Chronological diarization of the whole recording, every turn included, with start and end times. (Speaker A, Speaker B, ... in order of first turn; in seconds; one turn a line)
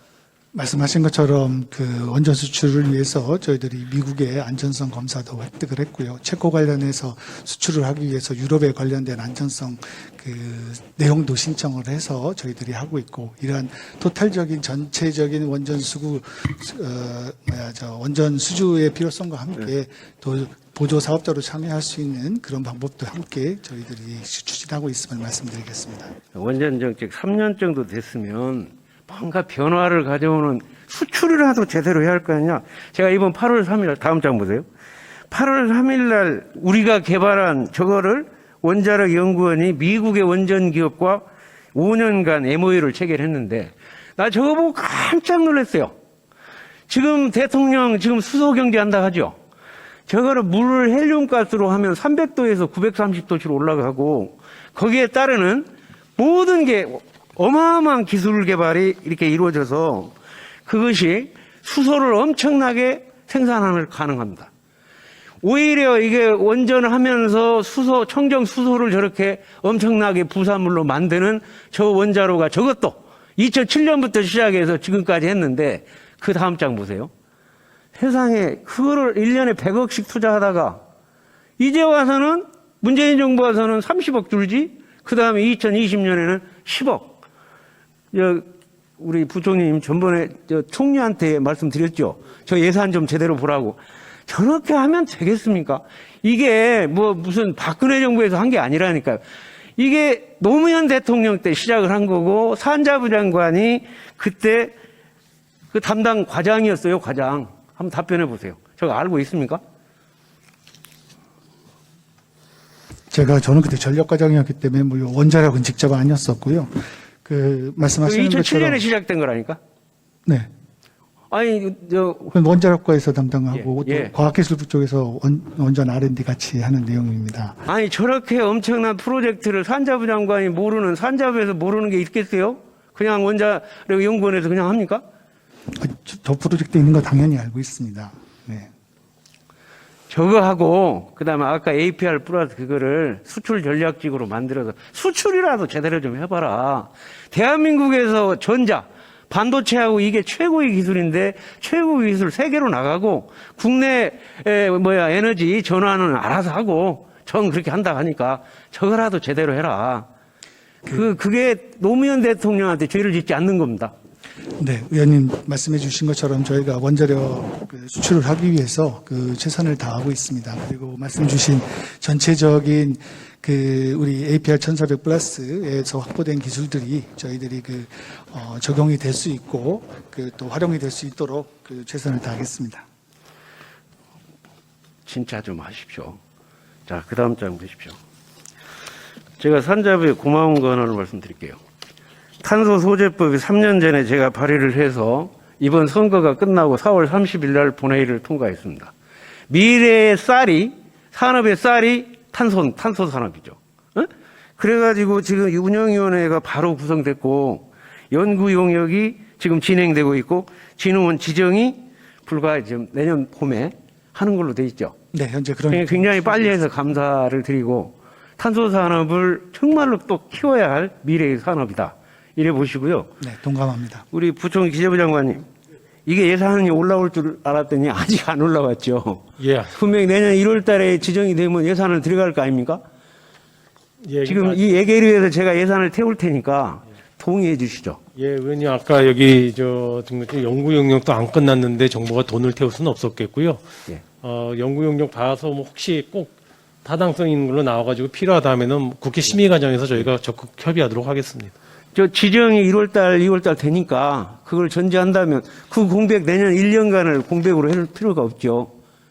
Speaker A: 0.5-26.1
Speaker B: 26.3-34.7
Speaker B: 35.3-45.9
Speaker B: 46.9-49.4
Speaker B: 50.1-60.1
Speaker B: 60.7-64.5
Speaker B: 65.4-77.1
Speaker B: 78.0-80.8
Speaker B: 81.6-87.2
Speaker B: 88.1-99.2
Speaker B: 99.8-104.8
Speaker B: 105.7-109.6
Speaker A: 113.1-118.8
Speaker B: 118.0-119.6
Speaker B: 121.3-122.3
Speaker A: 122.3-127.6
Speaker B: 123.5-124.1
Speaker B: 127.7-135.0
Speaker A: 135.8-138.7
Speaker B: 140.1-160.1
Speaker B: 160.9-163.9
Speaker A: 164.6-182.8
Speaker B: 185.1-186.2
Speaker B: 186.9-188.0
Speaker B: 189.4-191.6
Speaker B: 192.4-198.9
Speaker B: 199.5-214.9
Speaker A: 215.1-216.6
Speaker B: 215.7-223.1
Speaker A: 223.2-224.1
Speaker B: 224.1-225.5
Speaker B: 226.1-232.8
Speaker C: 229.4-229.8
Speaker C: 234.0-234.6
Speaker B: 234.2-238.0
Speaker C: 238.2-251.5
Speaker B: 251.9-258.7